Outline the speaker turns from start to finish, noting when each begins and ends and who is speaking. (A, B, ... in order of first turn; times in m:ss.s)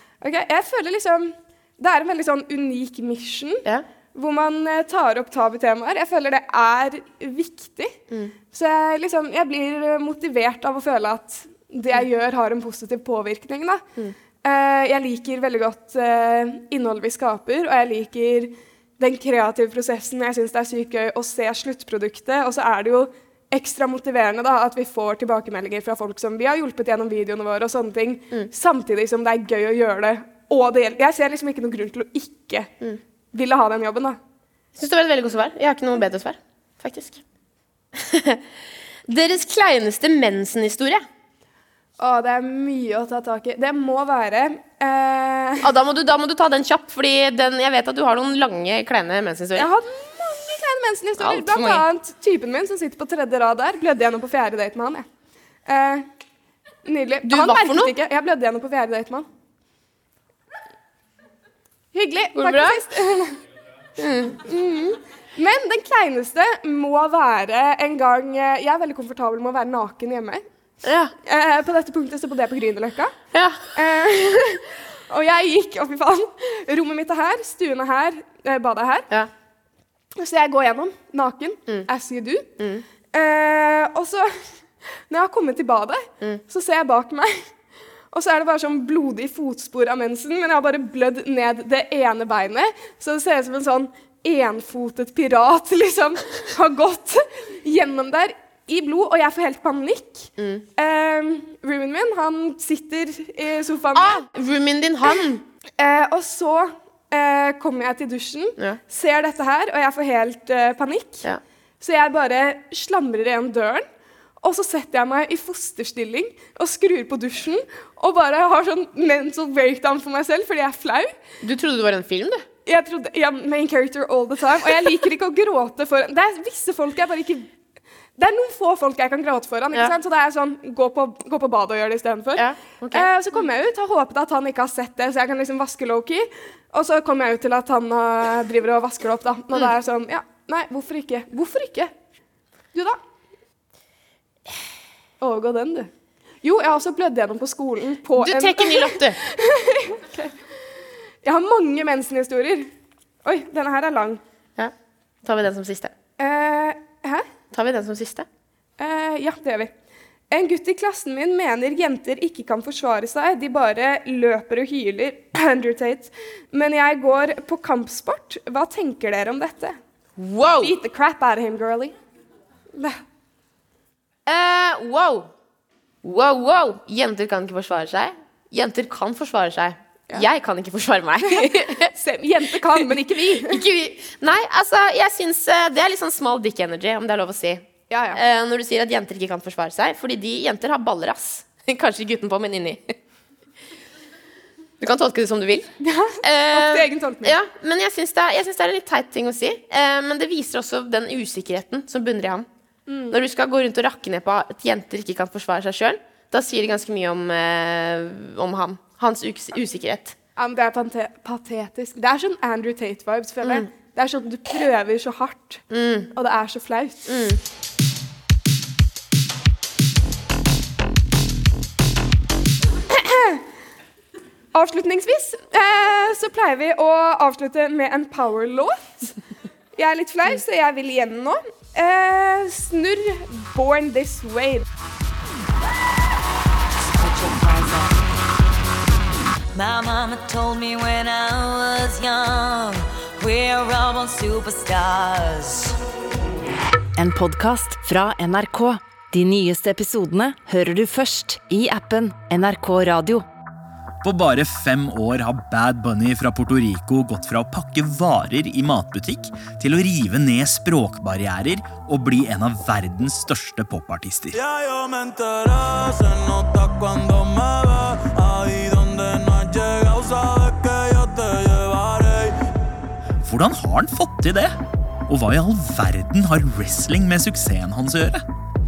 0:00.2-0:08.0 A
0:08.5-0:13.8 A
0:14.4-0:32.7 A
0:33.3-0:34.2 A
0:34.8-0:37.2 B
0:37.9-0:38.4 B
0:39.1-0:41.0 B
0:42.0-0:45.7 A
0:45.6-0:49.7 B
0:49.6-0:55.1 A
0:51.2-0:51.9 B
0:55.6-0:56.1 A
0:56.8-0:59.3 A
0:57.2-0:57.9 B
1:01.9-1:03.4 A
1:02.3-1:02.8 B
1:04.0-1:05.0 B
1:05.4-1:10.4 A
1:10.8-1:11.1 B
1:11.2-1:13.1 A
1:13.3-1:13.7 B
1:13.7-1:19.1 A
1:20.2-1:22.5 A
1:22.6-1:22.8 B
1:23.1-1:24.5 A
1:25.1-1:27.4 A
1:28.1-1:44.2 A
1:40.4-1:40.6 B
1:43.9-1:45.4 B
1:45.8-1:51.3 A
1:51.8-1:53.9 A
1:54.4-2:01.2 A
2:01.4-2:02.4 B
2:02.6-2:07.5 A
2:08.2-2:21.9 A
2:12.4-2:13.1 B
2:22.7-2:23.0 A
2:25.2-2:25.9 A
2:26.4-2:30.3 A
2:28.2-2:29.2 B
2:31.2-2:32.7 A
2:33.2-2:34.2 A
2:35.2-2:35.9 B
2:36.2-2:37.2 A
2:37.5-2:38.3 B
2:38.8-2:39.7 A
2:40.3-2:49.8 A
2:50.2-2:50.7 B
2:50.6-2:51.9 A
2:52.7-2:53.0 A
2:54.2-2:55.3 B
2:56.0-3:01.9 B
3:01.3-3:03.6 A
3:02.6-3:13.0 B
3:07.9-3:08.2 A
3:14.8-3:15.7 B
3:15.8-3:17.4 A
3:16.2-3:22.5 B
3:22.9-3:23.2 A
3:23.1-3:30.2 B
3:30.4-3:37.2 A
3:35.7-3:36.1 B
3:37.1-3:37.4 B
3:42.9-3:43.4 A
3:44.5-3:49.1 A
3:49.8-3:54.6 A
3:56.9-3:58.0 C
3:59.5-4:05.8 C
4:07.0-4:13.2 D
4:14.0-4:24.4 E
4:24.3-4:32.4 F
4:33.2-4:38.2 E